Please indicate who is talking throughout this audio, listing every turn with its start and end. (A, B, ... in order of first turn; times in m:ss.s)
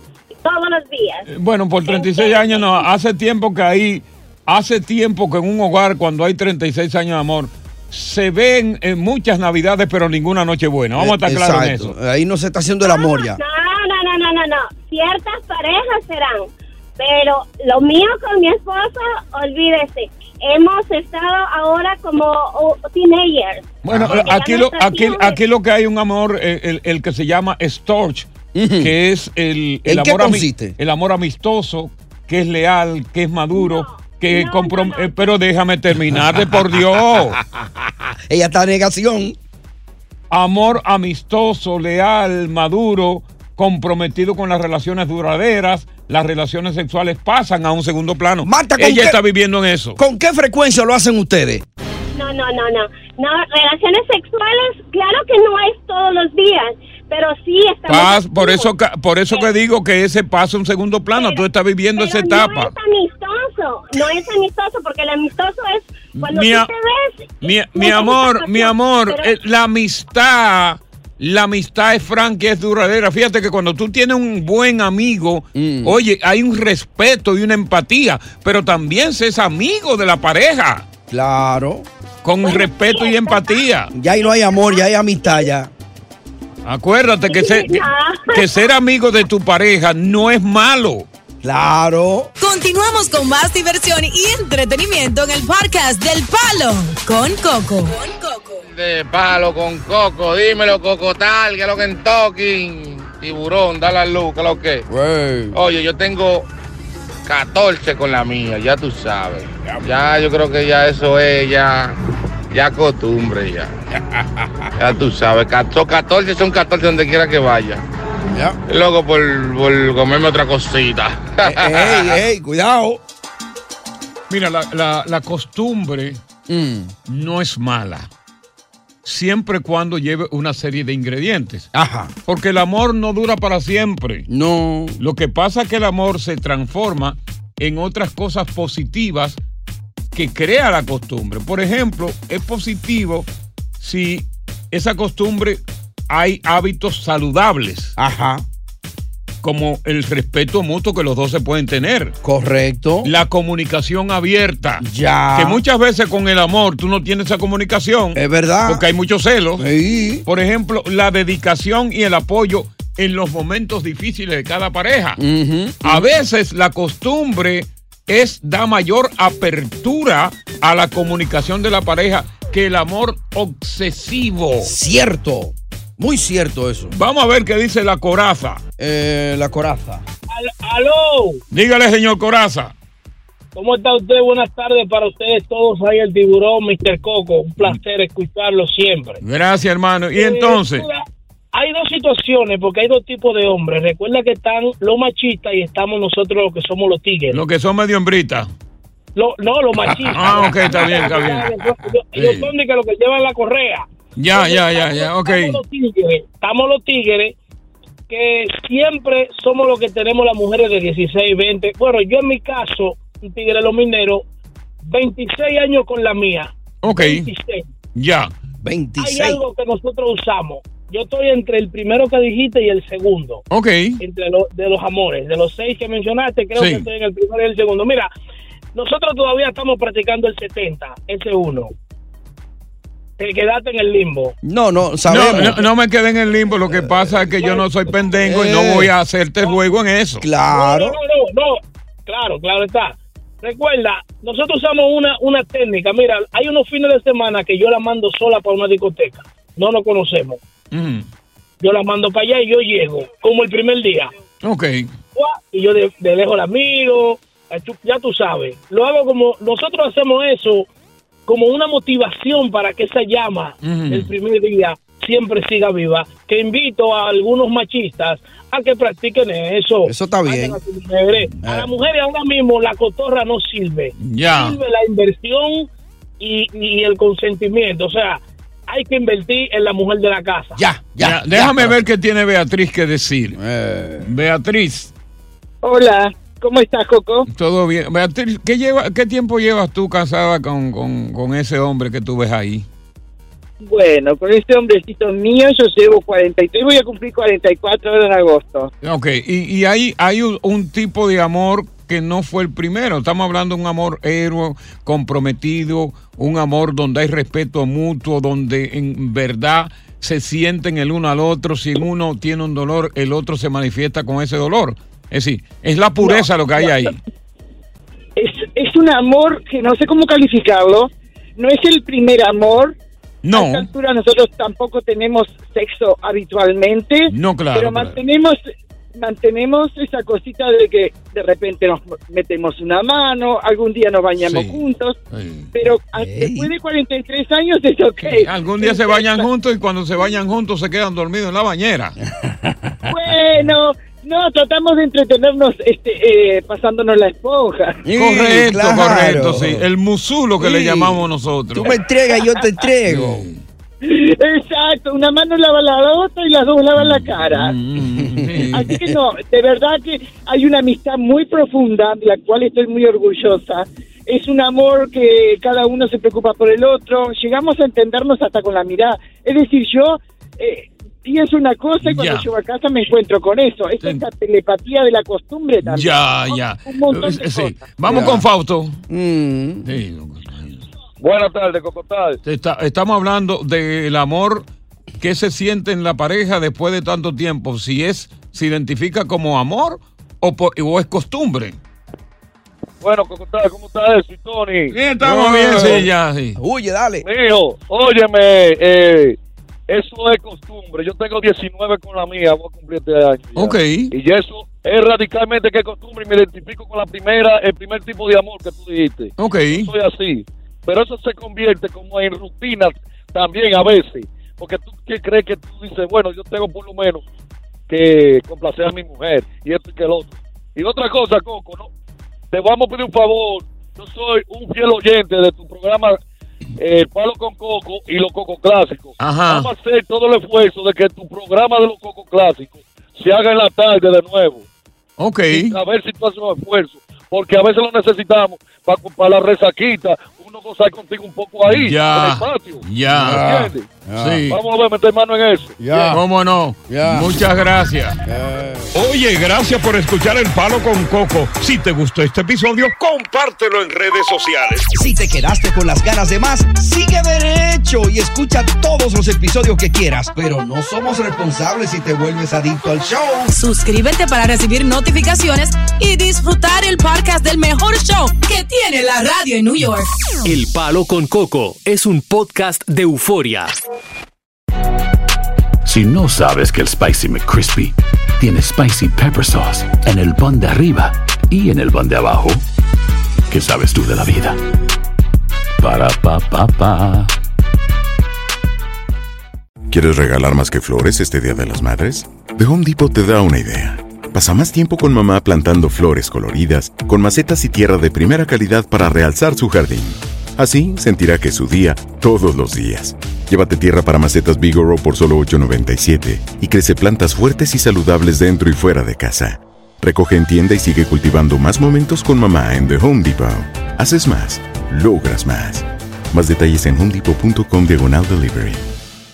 0:00.4-0:01.3 A
0:01.3-0:11.9 B
0:01.8-0:02.8 A
0:11.0-0:13.4 C
0:12.8-0:25.4 A
0:23.8-0:28.3 B
0:23.9-0:24.2 C
0:28.5-0:28.9 C
0:28.8-0:37.4 B
0:29.8-0:30.7 C
0:33.5-0:35.3 A
0:38.3-0:39.4 C
0:40.3-0:50.0 B
0:48.4-0:49.2 C
0:50.0-0:51.6 C
0:52.1-0:58.7 A
0:57.9-1:02.7 B
1:01.1-1:01.4 A
1:02.0-1:09.3 A
1:06.1-1:06.7 B
1:07.4-1:20.9 B
1:15.5-1:16.0 C
1:21.1-1:21.8 C
1:22.2-1:23.9 B
1:22.4-1:25.3 A
1:23.9-1:25.7 C
1:26.6-1:31.1 B
1:27.2-1:28.6 A
1:31.4-1:32.3 C
1:32.4-1:38.6 D
1:38.6-1:44.9 E
1:44.9-1:45.6 C
1:45.5-1:46.5 E
1:47.2-1:52.0 E
1:52.5-1:53.7 E
1:54.8-1:57.8 E
1:58.3-1:58.6 C
1:58.7-2:02.2 E
2:01.4-2:03.0 C
2:04.3-2:06.2 B
2:06.5-2:06.9 C
2:07.1-2:08.1 B
2:09.0-2:11.7 B
2:11.7-2:12.1 C
2:12.3-2:14.3 B
2:14.3-2:15.0 C
2:15.0-2:19.4 B
2:20.1-2:23.3 B
2:23.8-2:27.9 B
2:28.0-2:28.4 C
2:29.4-2:32.1 B
2:32.2-2:33.1 C
2:33.0-2:39.7 B
2:34.8-2:35.6 C
2:38.1-2:38.8 C
2:39.6-2:40.2 C
2:40.2-2:45.2 B
2:45.2-2:46.1 C
2:45.8-2:54.7 B
2:54.6-2:56.9 C
2:56.9-2:58.6 B
2:58.8-3:00.0 C
3:00.3-3:01.4 F
3:01.5-3:02.7 B
3:03.5-3:09.2 F
3:09.2-3:10.8 B
3:10.2-3:17.4 F
3:17.3-3:18.5 B
3:19.2-3:27.3 F
3:19.9-3:22.5 B
3:24.2-3:25.6 B
3:28.1-3:34.2 F
3:34.8-3:37.7 F
3:36.8-3:37.2 B
3:37.9-3:38.3 B
3:38.6-3:39.4 C
3:39.0-3:43.4 F
3:43.5-3:44.0 B
3:44.0-3:48.1 F
3:46.6-3:46.8 B
3:48.7-3:51.7 F
3:53.2-3:54.4 F
3:54.4-3:55.6 C
3:55.1-4:00.2 B
3:57.4-3:58.1 F
3:58.2-3:58.9 C
4:00.2-4:01.0 C
4:00.5-4:10.4 F
4:10.7-4:11.1 B
4:11.6-4:14.1 F
4:14.4-4:14.9 B
4:15.1-4:20.7 F
4:21.3-4:35.7 F
4:23.6-4:24.1 B
4:29.8-4:30.6 C
4:31.4-4:31.7 C
4:34.0-4:34.6 B
4:36.2-4:40.6 F
4:40.6-4:41.8 C
4:41.0-4:43.4 B
4:43.3-4:44.1 C
4:44.0-4:44.9 B
4:45.6-4:47.2 G
4:47.3-4:52.6 B
4:53.6-4:58.7 G
4:58.8-5:17.0 B
5:16.0-5:16.7 G
5:18.2-5:22.7 G
5:23.2-5:23.7 B
5:23.3-5:28.4 G
5:27.1-5:28.0 B
5:28.9-5:35.0 G
5:34.2-5:34.6 B
5:35.1-5:35.5 B
5:35.5-5:39.2 G
5:36.0-5:36.5 C
5:38.0-5:42.0 B
5:42.2-5:43.0 C
5:42.9-5:47.8 G
5:47.8-5:49.6 C
5:47.9-5:51.8 B
5:50.4-5:53.2 C
5:52.9-5:53.4 B
5:53.8-5:57.5 G
5:56.8-5:58.7 B
5:57.8-5:58.8 C
5:58.5-6:17.6 G
6:11.8-6:12.3 B
6:15.6-6:18.8 B
6:17.8-6:18.2 C
6:18.9-6:19.6 C
6:19.6-6:20.6 B
6:21.0-6:22.2 H
6:22.2-6:24.5 B
6:25.0-6:31.6 B
6:32.8-6:34.8 H
6:34.8-6:36.4 B
6:34.9-6:37.0 C
6:37.0-6:39.2 H
6:39.7-6:57.0 H
6:43.4-6:43.9 B
6:49.2-6:49.7 B
6:57.7-7:01.7 H
7:02.3-7:06.0 H
7:06.6-7:14.4 H
7:09.0-7:09.5 B
7:15.0-7:15.6 B
7:15.3-7:23.7 H
7:21.5-7:24.4 B
7:22.9-7:24.2 C
7:24.3-7:25.9 H
7:25.6-7:26.0 C
7:25.9-7:28.0 B
7:26.7-7:27.1 C
7:28.0-7:28.7 C
7:28.7-7:34.7 B
7:34.7-7:43.3 C
7:43.3-7:49.9 D
7:50.2-7:53.5 I
7:55.6-8:02.4 J
8:03.3-8:04.4 J
8:05.6-8:07.1 J
8:09.7-8:38.6 K